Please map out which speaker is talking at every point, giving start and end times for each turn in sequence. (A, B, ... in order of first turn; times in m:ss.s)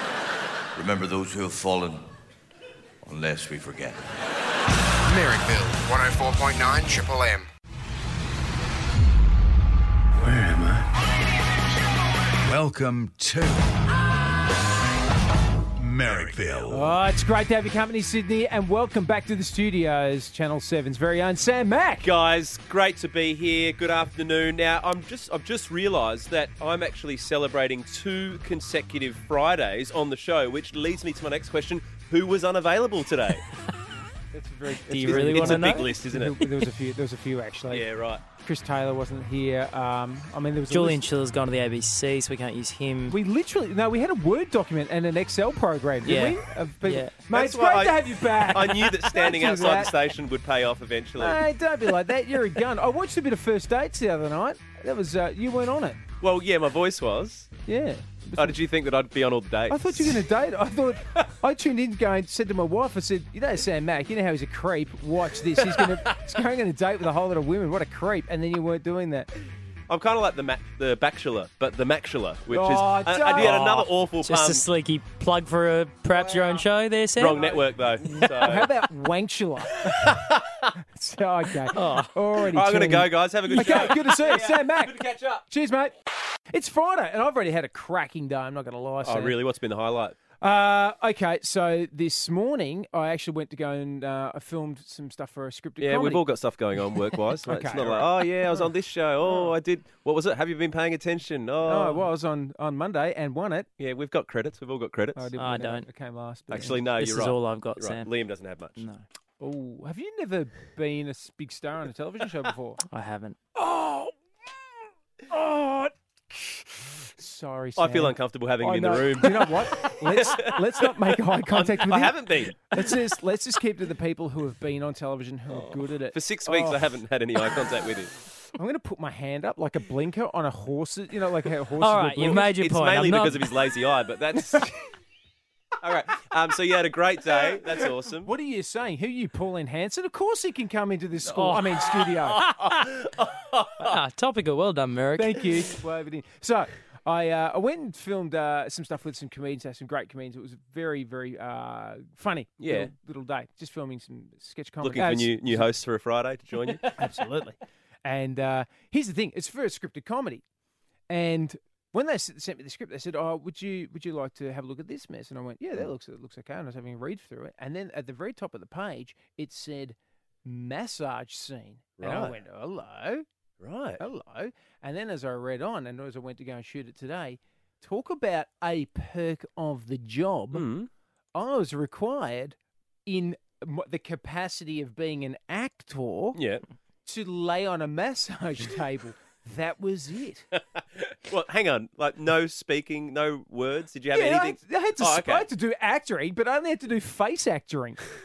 0:00.8-0:02.1 A
0:03.0-0:04.0 A
0:05.1-0:07.5 B
0:10.2-0:10.9 C
0:12.5-0:13.7 C
0:15.8-0:17.0 C
0:16.7-0:22.1 D
0:22.0-0:33.4 E
0:34.3-0:41.0 D
0:34.9-0:36.0 F
0:35.0-0:36.4 E
0:37.7-0:38.2 E
0:40.7-0:43.2 F
0:43.1-0:49.9 D
0:46.1-0:47.2 F
0:47.3-0:51.5 E
0:51.2-0:56.0 D
0:56.2-0:57.5 E
0:57.7-0:58.6 D
0:58.4-1:00.2 E
0:59.7-1:09.3 D
1:05.6-1:05.9 E
1:09.9-1:14.7 E
1:12.5-1:13.9 D
1:14.2-1:17.4 F
1:17.2-1:18.7 E
1:17.4-1:20.1 D
1:19.8-1:20.7 E
1:20.8-1:25.9 D
1:21.7-1:22.1 F
1:22.5-1:25.4 E
1:23.5-1:23.8 F
1:26.5-1:29.4 D
1:29.0-1:30.2 E
1:30.4-1:36.2 D
1:35.8-1:42.1 E
1:37.4-1:38.7 D
1:39.2-1:39.5 D
1:41.6-1:43.7 D
1:43.8-1:45.3 E
1:45.2-1:46.8 D
1:45.4-1:45.9 F
1:46.5-1:48.9 E
1:46.6-1:48.1 F
1:48.8-1:49.0 F
1:49.4-1:52.8 D
1:52.9-1:53.4 F
1:53.6-1:54.2 D
1:55.3-2:06.8 D
1:57.8-2:02.6 E
2:05.5-2:08.1 E
2:08.6-2:12.4 D
2:11.8-2:13.5 F
2:12.2-2:14.7 E
2:14.5-2:14.8 D
2:15.8-2:18.3 E
2:17.3-2:22.4 D
2:21.3-2:23.0 F
2:22.4-2:24.0 E
2:23.8-2:25.5 F
2:25.2-2:35.7 D
2:32.6-2:32.9 E
2:34.8-2:36.9 E
2:36.9-2:40.4 D
2:41.1-2:53.2 D
2:52.0-2:52.4 E
2:53.6-2:54.0 E
2:54.0-3:00.7 D
3:00.5-3:00.9 E
3:01.3-3:06.4 D
3:06.3-3:06.6 E
3:07.0-3:10.5 D
3:10.8-3:15.5 E
3:14.1-3:18.1 D